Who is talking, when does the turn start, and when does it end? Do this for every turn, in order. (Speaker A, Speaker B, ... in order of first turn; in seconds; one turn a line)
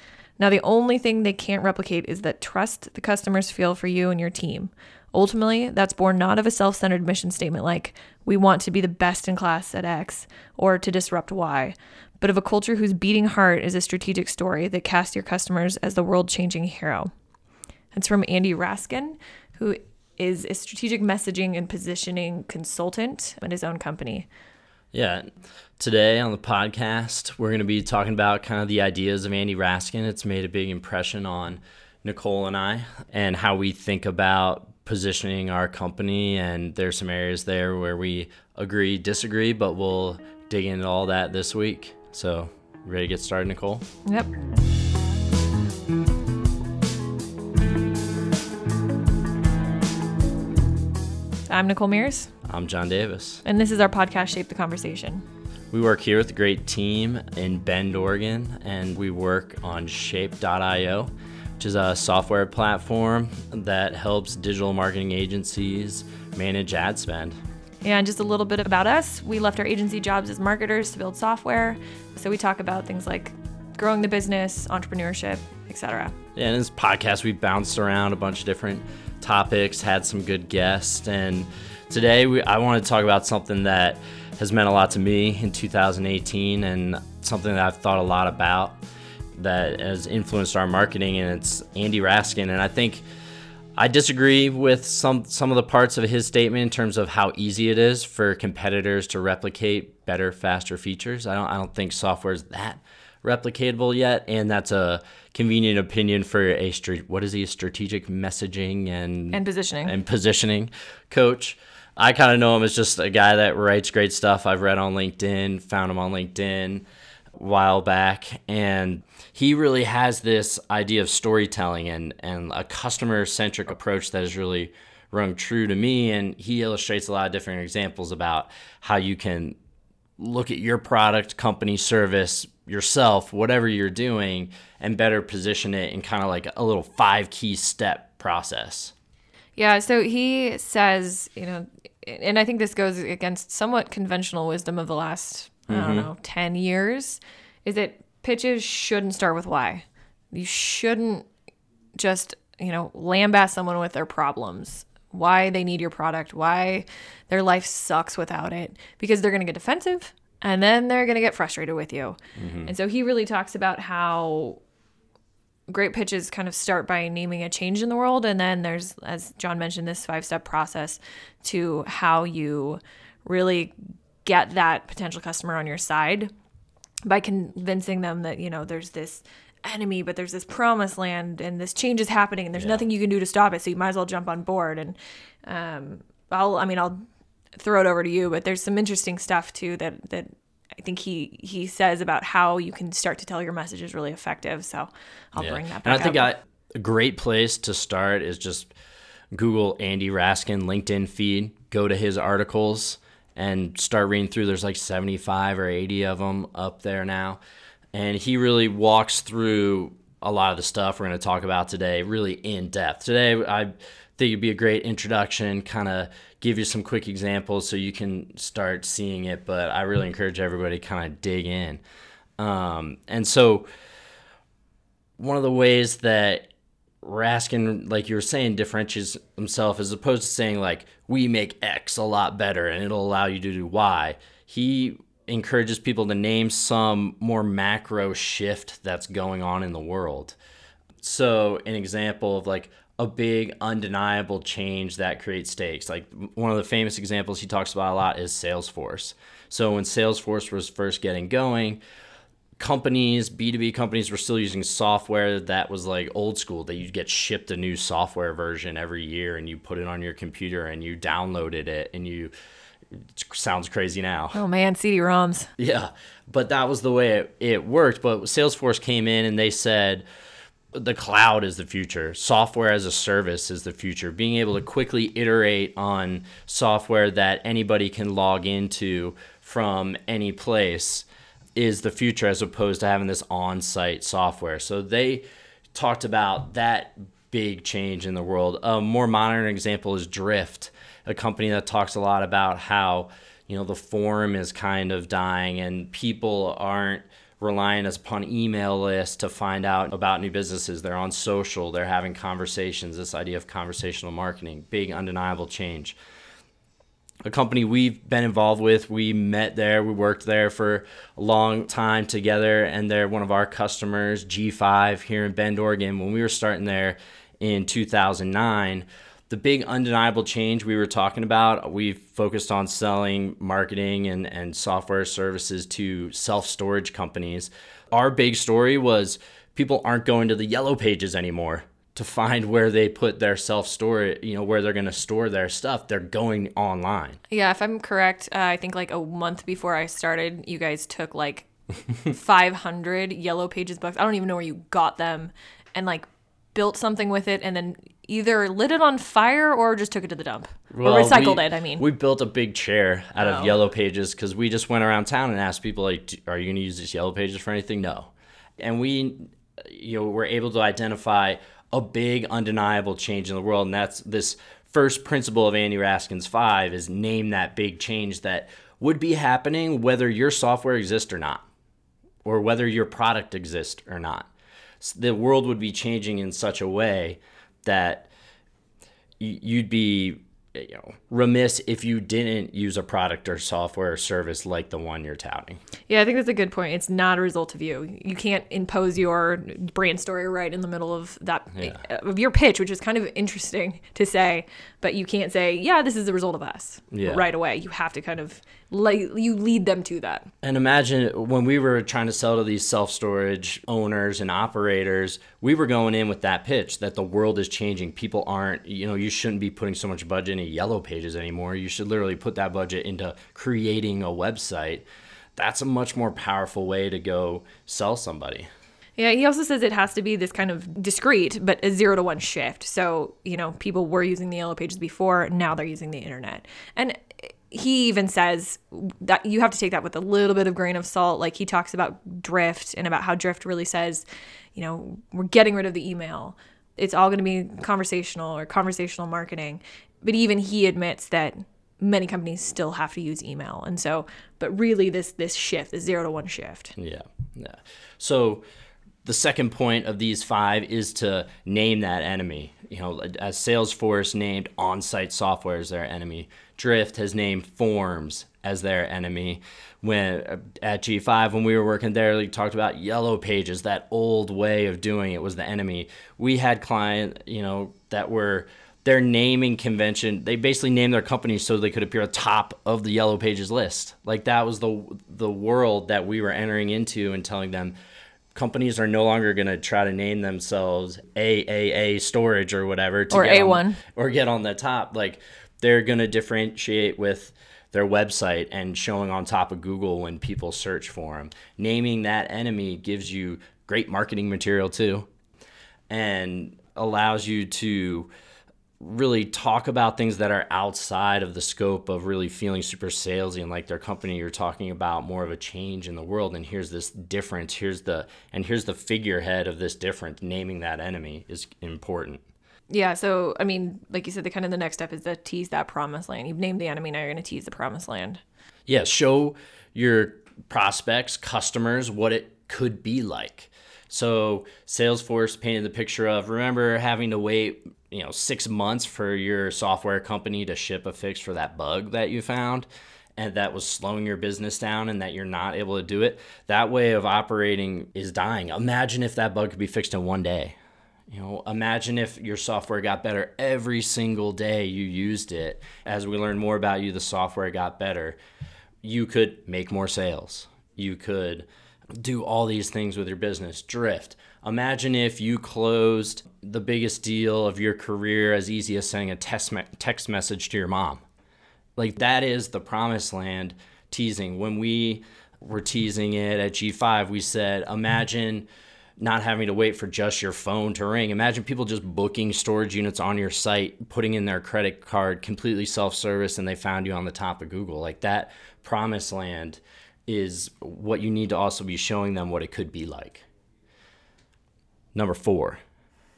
Speaker A: 0.4-17.1
Speaker A: 17.9-24.3
Speaker B: 24.9-25.3
Speaker B: 25.8-43.9
Speaker A: 51.5-52.3
Speaker B: 52.5-53.4
Speaker A: 53.4-55.2
Speaker B: 55.7-67.4
Speaker A: 67.8-76.2
Speaker B: 76.4-88.8
Speaker B: 89.4-93.0
Speaker B: 93.8-116.9
Speaker A: 109.3-110.0
Speaker B: 117.4-129.6
Speaker B: 130.2-138.9
Speaker A: 139.6-151.3
Speaker B: 145.7-146.1
Speaker A: 152.0-164.6
Speaker B: 162.4-162.7
Speaker A: 165.7-173.7
Speaker A: 174.2-176.3
Speaker A: 177.1-187.0
Speaker B: 182.6-182.8
Speaker A: 187.6-196.3
Speaker B: 195.4-198.7
Speaker B: 199.3-207.4
Speaker B: 207.9-221.8
Speaker B: 222.4-223.7
Speaker B: 225.2-226.5
Speaker B: 227.0-240.4
Speaker B: 241.0-251.8
Speaker B: 252.6-262.3
Speaker B: 263.1-264.4
Speaker A: 264.3-265.5
Speaker B: 265.6-270.1
Speaker B: 270.7-306.0
Speaker B: 307.2-337.2
Speaker A: 337.3-341.5
Speaker A: 342.0-351.8
Speaker B: 350.7-371.5
Speaker A: 353.2-353.6
Speaker B: 372.2-374.3
Speaker B: 374.8-378.1
Speaker B: 379.2-385.6
Speaker A: 385.9-400.3
Speaker B: 396.9-397.2
Speaker B: 400.4-414.9
Speaker B: 415.4-418.5
Speaker A: 419.0-446.8
Speaker B: 446.8-448.4
Speaker B: 449.0-477.8
Speaker B: 478.3-495.1
Speaker A: 483.1-483.8
Speaker B: 495.9-498.1
Speaker B: 498.8-512.2
Speaker A: 512.7-518.2
Speaker B: 518.7-540.6
Speaker B: 541.1-548.2
Speaker B: 548.8-561.0
Speaker B: 561.8-568.5
Speaker B: 569.0-583.3
Speaker B: 585.0-585.6